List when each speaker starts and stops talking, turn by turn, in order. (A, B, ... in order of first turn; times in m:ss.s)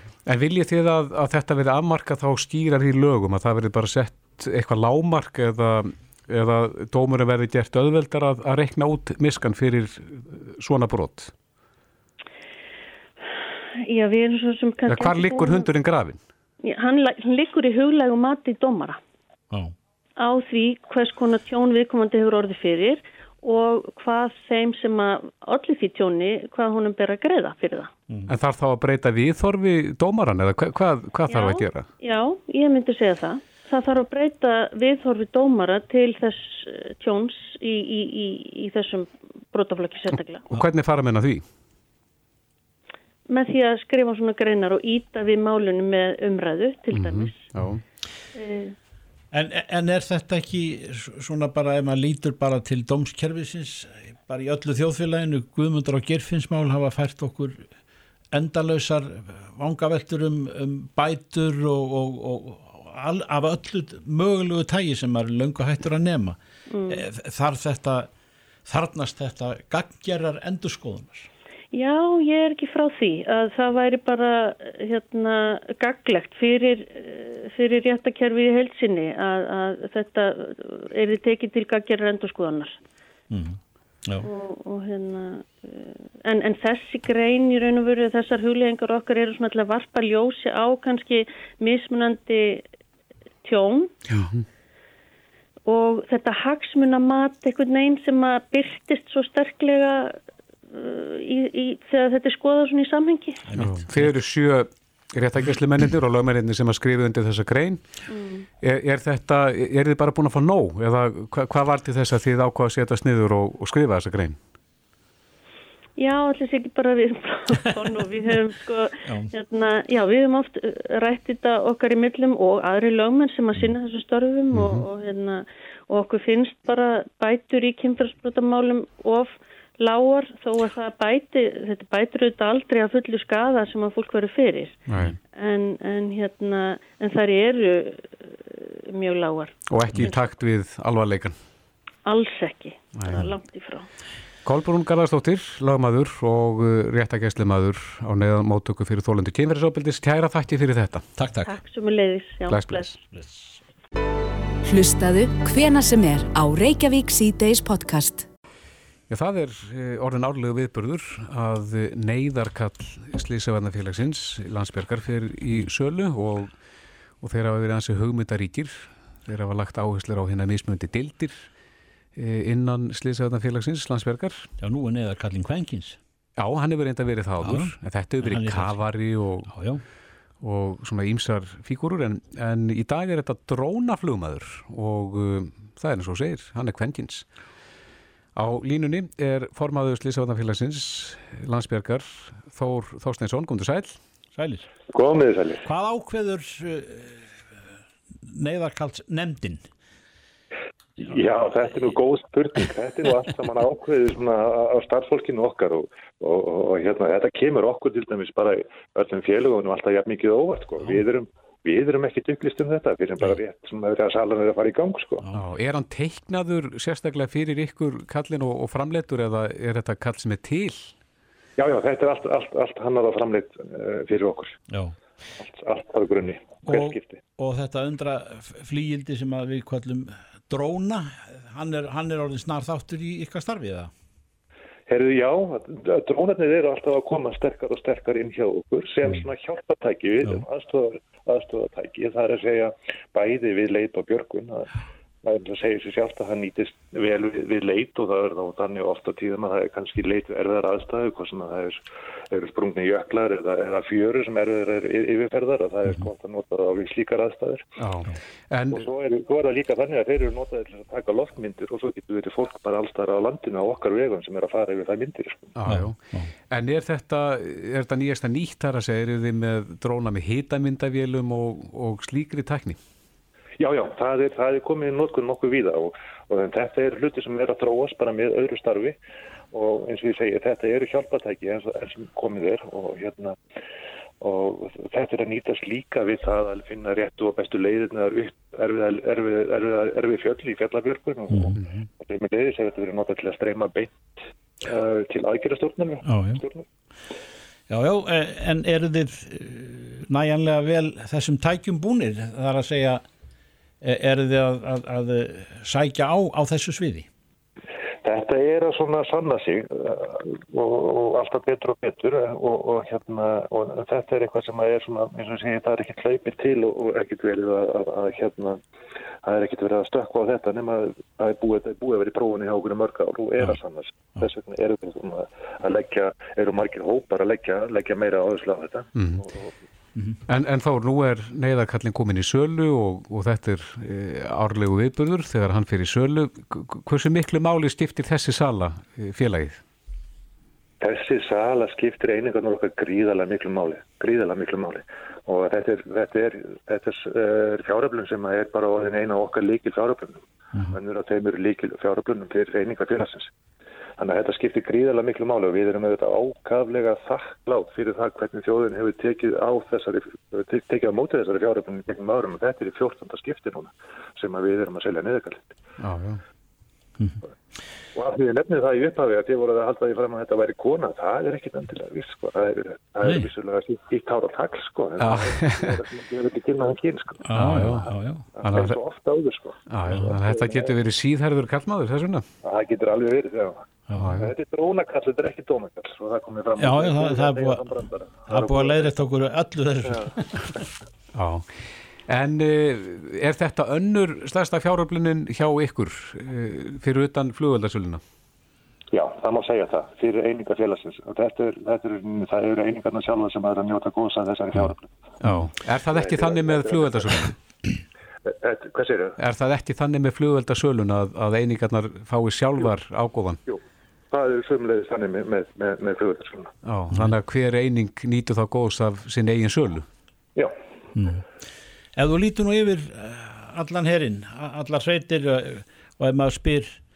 0:00.2-0:11.3 A
0:13.8-0:15.7 B
0:14.9-0:16.2 A
0:16.6-0:19.0 B
0:20.2-0:27.9 B
0:28.3-0:31.9 A
0:31.3-0:40.5 B
0:40.5-0:41.4 A
0:43.3-0:47.4 B
0:46.9-0:47.8 A
0:48.3-0:48.7 B
0:49.3-0:57.7 C
0:58.3-1:08.1 C
1:06.7-1:07.0 B
1:08.6-1:11.3 C
1:11.7-1:22.8 B
1:23.3-1:24.3 C
1:24.2-1:32.6 B
1:33.4-1:33.9 B
1:34.1-1:34.4 A
1:35.7-1:40.2 B
1:40.7-1:43.4 B
1:43.5-1:44.1 C
1:43.5-1:47.8 A
1:48.1-1:48.5 B
1:48.6-1:54.4 A
1:56.0-2:14.8 B
2:04.5-2:04.8 A
2:14.9-2:15.2 A
2:15.3-2:20.3 B
2:19.7-2:21.3 A
2:22.0-2:23.9 B
2:22.9-2:23.3 A
2:24.4-2:31.1 A
2:31.2-2:31.5 C
2:31.4-2:32.9 B
2:32.5-2:33.0 A
2:33.1-2:33.6 C
2:34.6-2:38.2 D
2:39.1-2:46.5 A
2:47.2-2:51.5 A
2:52.2-2:54.5 A
2:54.6-2:56.0 C
2:56.4-2:59.6 A
2:57.4-2:58.8 C
2:59.5-2:59.8 C
3:00.4-3:07.2 A
3:08.4-3:14.0 A
3:14.3-3:14.7 C
3:14.9-3:15.7 E
3:15.6-3:17.4 C
3:18.2-3:19.6 C
3:21.0-3:35.2 E
3:35.3-3:40.9 A
3:41.6-3:44.6 E
3:44.7-3:45.0 C
3:45.4-3:47.2 E
3:46.6-3:53.9 C
3:54.9-4:04.7 E
4:05.2-4:11.8 E
4:12.3-4:17.7 E
4:17.8-4:18.8 A
4:18.7-4:25.5 E
4:25.5-4:26.0 A
4:25.6-4:26.3 C
4:26.5-4:32.8 A
4:33.6-4:39.0 E
4:39.5-4:43.4 E
4:44.2-4:53.9 E
4:51.3-4:51.6 C
4:51.6-4:51.8 A
4:54.6-4:56.6 E
4:56.0-4:56.4 C
4:57.7-5:03.0 C
5:03.8-5:07.1 C
5:08.0-5:18.6 E
5:19.2-5:29.6 E
5:29.0-5:29.2 A
5:30.3-5:39.6 A
5:40.8-5:53.3 E
5:54.0-6:05.6 E
6:05.8-6:06.2 A
6:07.9-6:17.3 E
6:15.0-6:15.8 A
6:17.2-6:18.3 C
6:17.3-6:17.9 A
6:18.3-6:20.7 E
6:18.4-6:18.8 A
6:19.7-6:22.2 A
6:22.4-6:28.9 E
6:23.9-6:24.2 C
6:23.9-6:24.3 A
6:26.6-6:27.7 C
6:28.3-6:30.3 C
6:29.9-6:30.1 E
6:31.1-6:38.0 A
6:38.9-6:44.9 E
6:45.2-6:47.3 A
6:45.9-6:47.3 E
6:48.3-6:49.2 E
6:49.2-6:53.4 A
6:53.5-6:56.5 E
6:56.6-6:59.8 A
7:00.9-7:01.2 C
7:02.0-7:06.8 C